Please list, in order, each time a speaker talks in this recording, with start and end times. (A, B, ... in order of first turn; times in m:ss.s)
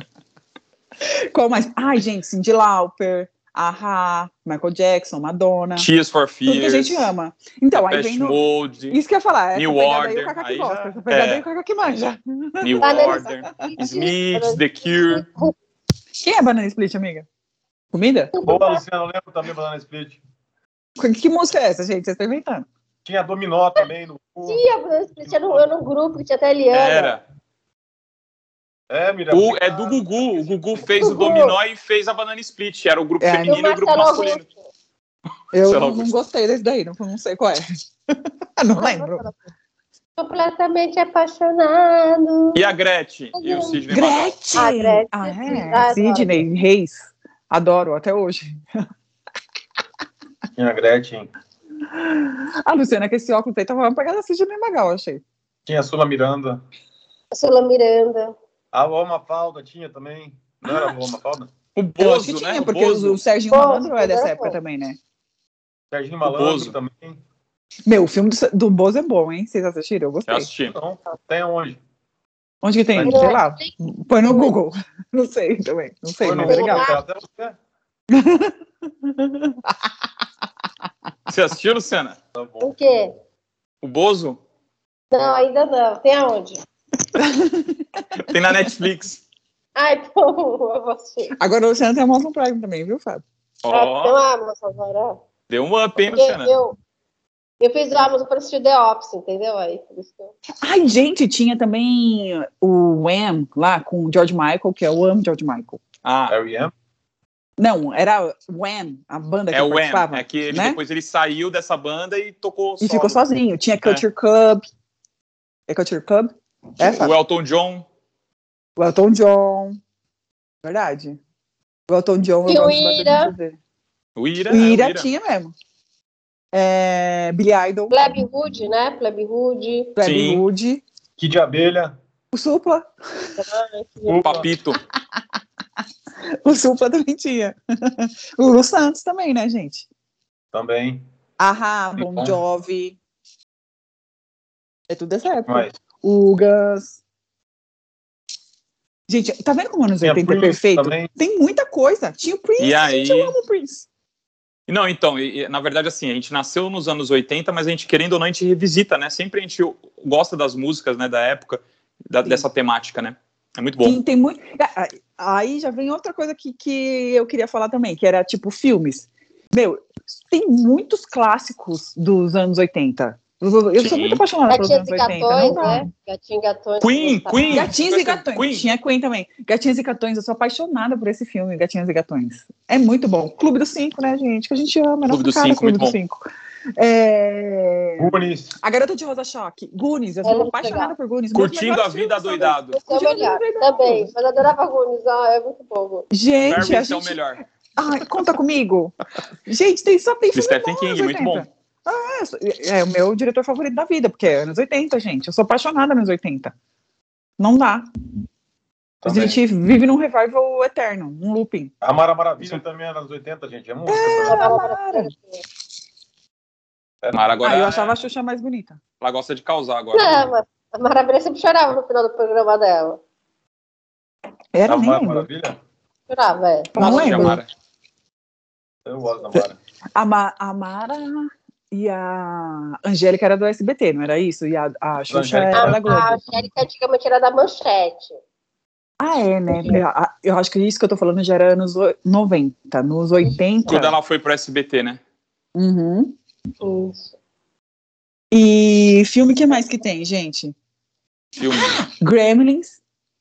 0:01.0-0:05.9 A
0:05.8-0:07.1 B
0:06.5-0:08.4 A
0:07.8-0:09.0 B
0:08.9-0:13.7 A
0:09.6-0:11.4 B
0:12.6-0:15.3 B
0:12.8-0:15.6 C
0:16.2-0:17.3 A
0:17.9-0:18.3 A
0:18.3-0:18.8 C
0:18.4-0:20.2 D
0:21.0-0:22.7 A
0:23.0-0:24.6 D
0:24.5-0:27.2 C
0:25.2-0:25.7 D
0:26.7-0:27.2 B
0:28.9-0:31.1 D
0:29.3-0:34.4 B
0:31.0-0:31.6 C
0:33.2-0:33.6 A
0:33.4-0:34.6 C
0:35.5-0:39.2 A
0:35.7-0:36.1 B
0:38.8-0:39.4 C
0:40.2-0:42.7 C
0:42.5-0:44.4 B
0:43.4-0:43.8 C
0:43.9-0:48.6 A
0:44.6-0:46.4 C
0:50.6-0:51.3 D
0:51.9-0:55.2 A
0:55.7-0:56.6 D
0:57.3-0:58.4 C
0:58.7-1:01.5 D
1:00.7-1:00.9 B
1:01.8-1:03.2 B
1:02.0-1:05.0 A
1:03.5-1:04.6 C
1:05.9-1:07.2 D
1:06.2-1:06.8 B
1:07.9-1:10.5 A
1:10.3-1:10.8 B
1:10.7-1:11.8 D
1:12.6-1:16.9 A
1:12.9-1:13.3 D
1:13.0-1:13.7 C
1:14.3-1:14.5 C
1:16.2-1:17.6 D
1:16.4-1:17.0 C
1:18.1-1:19.8 A
1:21.3-1:22.2 B
1:22.4-1:22.7 D
1:22.6-1:23.1 C
1:23.8-1:24.4 B
1:25.1-1:26.6 C
1:27.2-1:28.2 A
1:28.3-1:29.2 B
1:29.8-1:31.3 C
1:31.4-1:33.2 A
1:33.6-1:34.2 B
1:33.7-1:35.2 C
1:35.5-1:36.5 B
1:36.1-1:36.8 C
1:37.6-1:40.3 C
1:40.6-1:45.8 A
1:46.0-1:46.4 B
1:46.3-1:46.7 D
1:47.6-1:50.8 A
1:49.5-1:53.2 B
1:52.8-1:54.7 A
1:55.7-1:57.1 A
1:56.8-1:57.9 B
1:58.8-1:59.8 A
2:00.6-2:01.2 A
2:01.9-2:03.6 A
2:02.5-2:03.3 C
2:04.2-2:05.1 B
2:04.5-2:05.5 A
2:06.5-2:08.0 A
2:07.9-2:09.9 C
2:10.0-2:10.8 A
2:10.0-2:10.4 B
2:11.2-2:12.0 D
2:12.3-2:13.3 A
2:13.4-2:14.2 C
2:14.1-2:14.5 D
2:14.2-2:14.8 B
2:16.4-2:19.9 A
2:20.5-2:21.1 D
2:21.4-2:23.0 A
2:22.0-2:22.4 D
2:24.9-2:27.0 A
2:25.5-2:25.7 D
2:29.1-2:33.9 A
2:30.0-2:31.1 D
2:32.6-2:33.4 B
2:34.7-2:44.0 B
2:43.8-2:55.8 A
2:53.8-2:54.2 B
2:54.5-2:57.7 C
2:56.8-2:58.7 B
2:57.5-3:06.3 A
3:05.1-3:06.0 B
3:06.8-3:14.1 A
3:08.0-3:08.6 D
3:10.2-3:10.9 C
3:11.3-3:12.8 B
3:12.7-3:16.1 C
3:16.1-3:17.2 A
3:16.4-3:17.4 B
3:17.8-3:26.5 A
3:20.3-3:21.5 B
3:27.4-3:27.9 A
3:29.0-3:29.4 D
3:29.0-3:31.7 A
3:31.8-3:34.5 D
3:33.9-3:35.1 A
3:34.0-3:35.4 C
3:37.0-3:37.5 D
3:37.1-3:38.0 B
3:37.4-3:38.8 A
3:39.0-3:40.3 B
3:39.9-3:43.0 C
3:44.5-3:45.3 A
3:44.7-3:45.6 D
3:46.1-3:47.4 C
3:46.8-3:47.4 A
3:46.8-3:47.5 B
3:48.8-3:49.6 D
3:50.0-3:56.2 A
3:55.1-3:56.0 D
3:55.5-3:58.2 C
3:59.0-4:04.0 A
3:59.5-3:59.8 C
4:03.7-4:05.0 B
4:05.6-4:06.2 A
4:06.6-4:07.1 C
4:08.3-4:10.6 A
4:11.4-4:11.8 B
4:11.6-4:12.8 A